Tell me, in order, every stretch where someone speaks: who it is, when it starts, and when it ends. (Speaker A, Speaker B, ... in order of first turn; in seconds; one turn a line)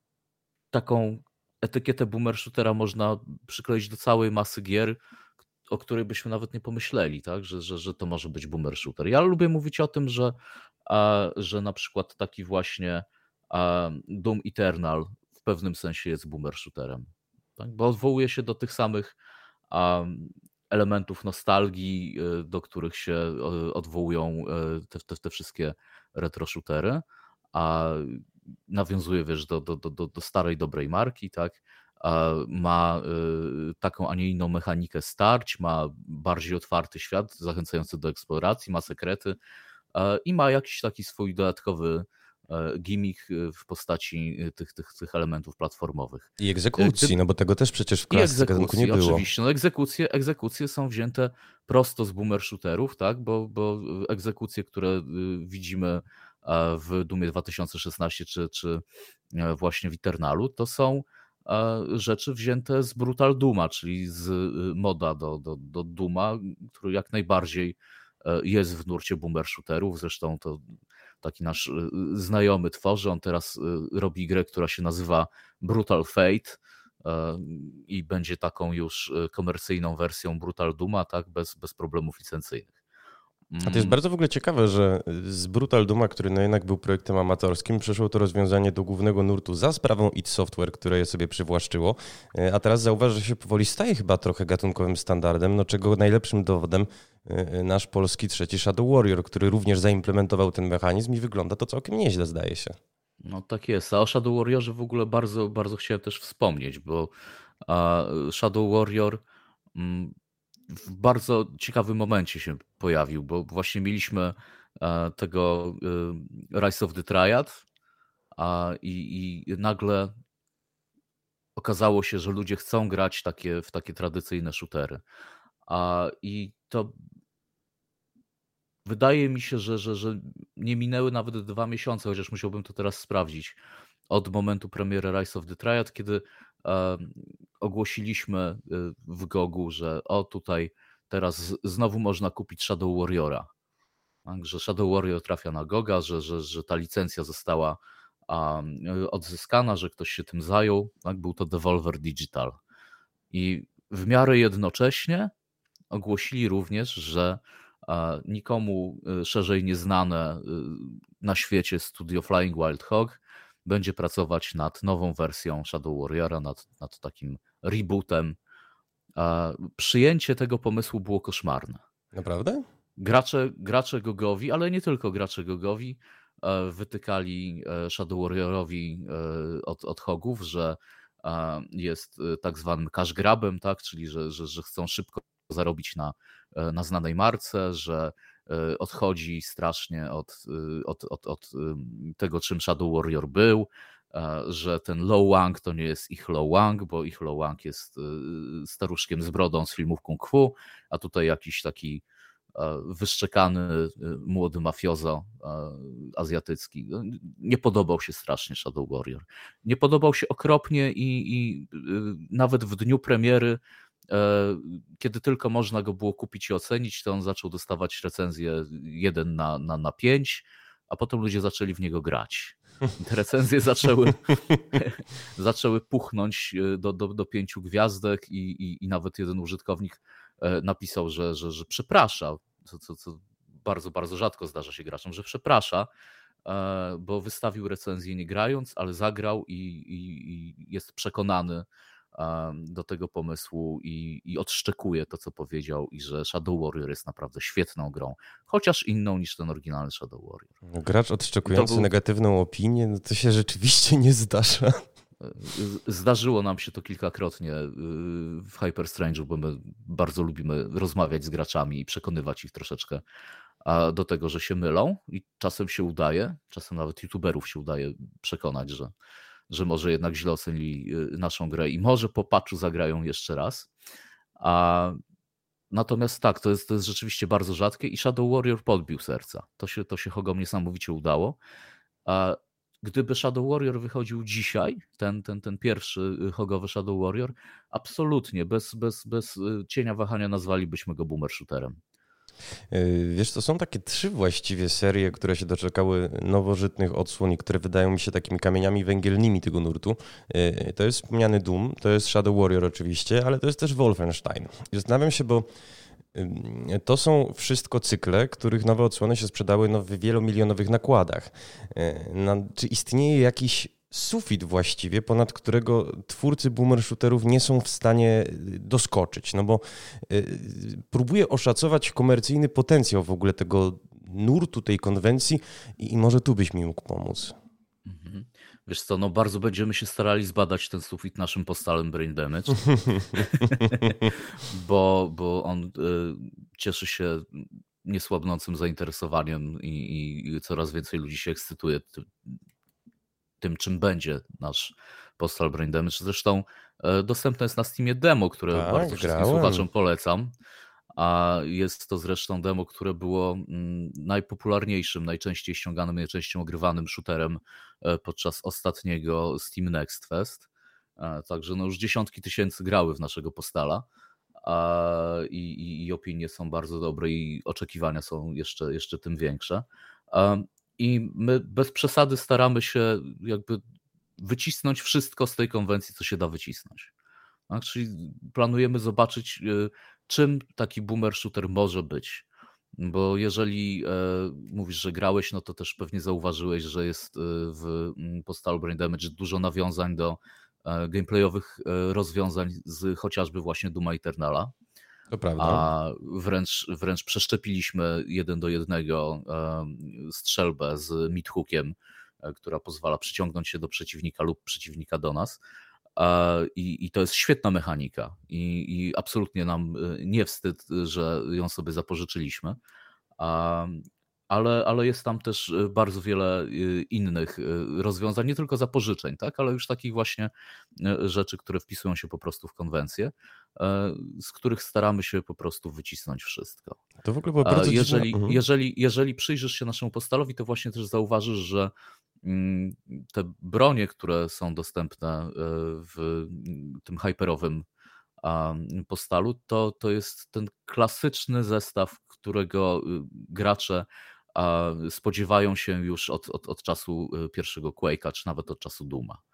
Speaker A: 0.7-5.0
Speaker A: 5.7-19.2
Speaker A: 19.7-39.4
Speaker A: 39.9-47.2
Speaker B: 46.4-49.2
Speaker A: 48.1-70.7
Speaker A: 71.2-82.8
Speaker A: 83.5-84.0
Speaker B: 83.6-102.8
Speaker A: 103.2-107.1
Speaker A: 107.6-109.2
Speaker A: 109.8-110.2
Speaker A: 110.7-117.6
Speaker A: 118.3-120.1
Speaker A: 121.6-125.0
Speaker A: 125.7-127.0
Speaker A: 128.8-133.6
Speaker A: 134.1-143.5
Speaker A: 144.2-152.6
Speaker A: 153.3-155.3
Speaker A: 155.9-168.4
Speaker A: 169.2-171.8
Speaker B: 172.1-172.6
Speaker A: 173.0-202.0
Speaker A: 202.6-235.9
Speaker A: 236.4-250.5
Speaker B: 250.7-254.8
Speaker A: 251.4-251.9
Speaker A: 255.2-263.0
Speaker A: 263.6-268.9
Speaker A: 269.5-273.7
Speaker A: 274.4-275.0
Speaker A: 275.7-281.4
Speaker A: 282.1-291.8
Speaker B: 292.7-305.5
Speaker B: 306.1-327.4
Speaker A: 327.9-342.4
Speaker A: 343.4-350.3
Speaker B: 348.5-349.7
Speaker A: 350.9-360.5
Speaker A: 361.0-363.9
Speaker A: 364.4-373.6
Speaker A: 374.2-376.9
Speaker A: 377.5-394.5
Speaker B: 395.1-395.7
Speaker A: 395.4-405.4
Speaker A: 406.0-412.6
Speaker A: 413.2-426.8
Speaker B: 427.0-428.4
Speaker A: 427.4-431.7
Speaker A: 432.2-437.6
Speaker A: 438.2-449.2